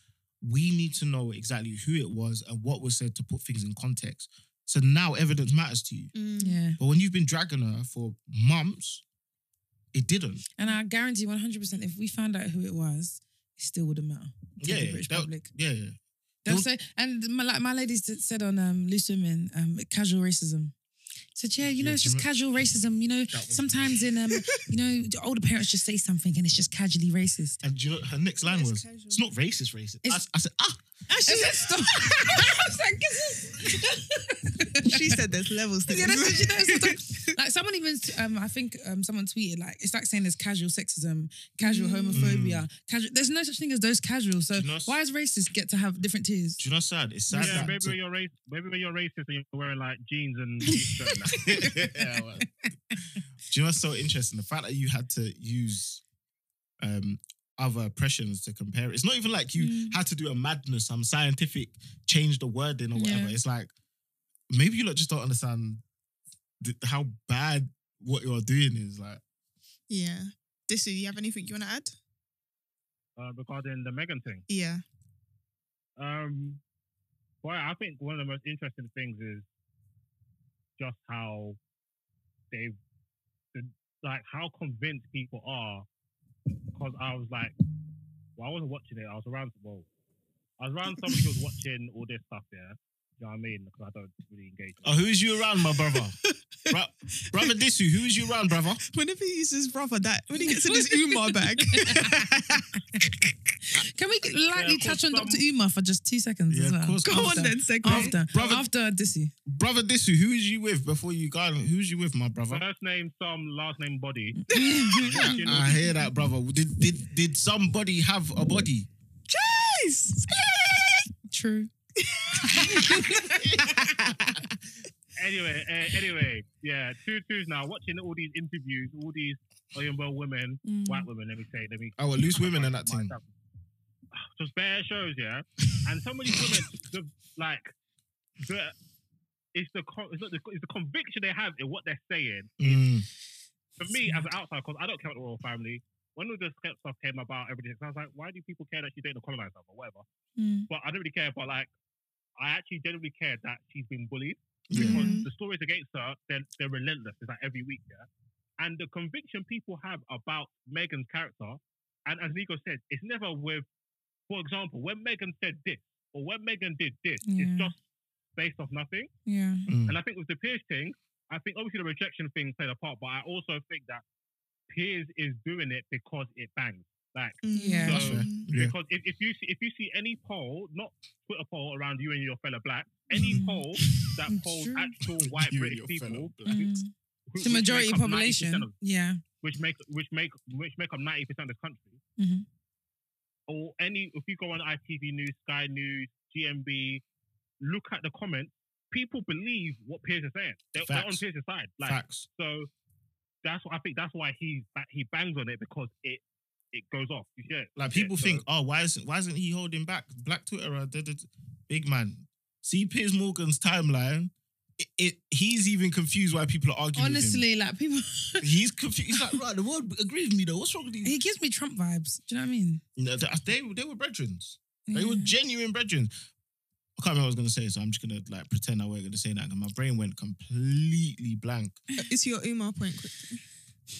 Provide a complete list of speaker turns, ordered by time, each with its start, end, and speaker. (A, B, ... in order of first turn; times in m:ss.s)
0:00.4-0:06.1 A
0:06.1-0:06.6 B
0:06.4-0:06.8 C
0:06.8-0:09.0 A
0:09.9-0:10.4 A
0:10.6-0:15.5 C
0:14.6-0:16.7 A
0:16.4-0:20.7 C
0:21.4-0:27.6 C
0:21.8-0:22.3 A
0:23.3-0:24.1 A
0:27.6-0:30.8 A
0:28.4-0:29.2 B
0:31.1-0:32.4 B
0:31.2-0:35.1 C
0:34.8-0:37.3 B
0:35.9-0:46.6 C
0:41.6-0:42.4 B
0:42.1-0:42.7 A
0:44.6-0:45.0 A
0:46.6-0:48.0 A
0:47.3-0:47.7 C
0:47.4-0:51.5 D
0:50.8-0:52.0 C
0:51.4-0:52.5 A
0:53.5-0:56.0 A
0:56.8-1:03.7 A
0:59.6-1:00.0 C
1:02.9-1:03.4 C
1:04.5-1:05.8 A
1:06.6-1:09.2 A
1:09.9-1:12.0 B
1:13.2-1:14.4 D
1:14.5-1:14.8 B
1:16.0-1:16.6 D
1:17.4-1:19.4 D
1:20.8-1:21.6 D
1:22.5-1:22.8 D
1:23.5-1:25.8 D
1:26.7-1:27.6 D
1:28.4-1:29.9 D
1:30.6-1:35.0 D
1:34.8-1:36.2 A
1:36.7-1:38.8 A
1:38.8-1:43.2 B
1:40.3-1:42.1 C
1:43.7-1:49.3 C
1:44.5-1:45.4 D
1:46.5-1:48.7 A
1:47.0-1:48.2 B
1:49.5-1:52.6 A
1:52.5-1:55.9 D
1:54.5-1:55.5 C
1:54.5-1:55.0 B
1:55.0-1:58.9 A
1:59.3-2:01.0 B
2:01.3-2:01.7 C
2:02.0-2:04.5 B
2:02.5-2:03.5 C
2:03.4-2:03.8 A
2:05.2-2:13.2 D
2:10.6-2:11.1 C
2:12.0-2:13.1 A
2:14.1-2:17.7 D
2:18.4-2:18.8 D
2:19.5-2:22.9 D
2:22.6-2:23.1 A
2:23.8-2:30.0 D
2:24.0-2:24.2 C
2:30.4-2:30.7 C
2:30.7-2:31.7 D
2:32.4-2:38.0 D
2:34.7-2:35.1 A
2:34.8-2:35.2 C
2:34.8-2:35.3 B
2:38.6-2:43.7 D
2:44.3-2:47.8 D
2:47.2-2:47.7 C
2:48.4-2:49.1 D
2:49.2-2:49.7 C
2:49.7-2:50.0 A
2:49.9-2:54.0 D
2:54.7-3:08.7 D
2:57.4-2:58.5 B
2:57.5-2:58.1 C
2:57.8-2:58.7 A
3:03.3-3:03.6 C
3:04.2-3:05.0 C
3:05.1-3:06.7 A
3:06.5-3:09.2 C
3:09.4-3:12.0 D
3:12.2-3:12.4 C
3:13.5-3:17.0 D
3:17.6-3:22.7 D
3:20.8-3:21.2 A
3:21.8-3:22.3 A
3:23.4-3:28.4 D
3:27.8-3:37.4 A
3:37.0-3:38.5 C
3:38.4-3:41.1 A
3:41.0-3:42.8 C
3:43.0-3:46.2 A
3:44.9-3:45.3 C
3:47.0-3:51.8 A
3:52.0-3:53.4 B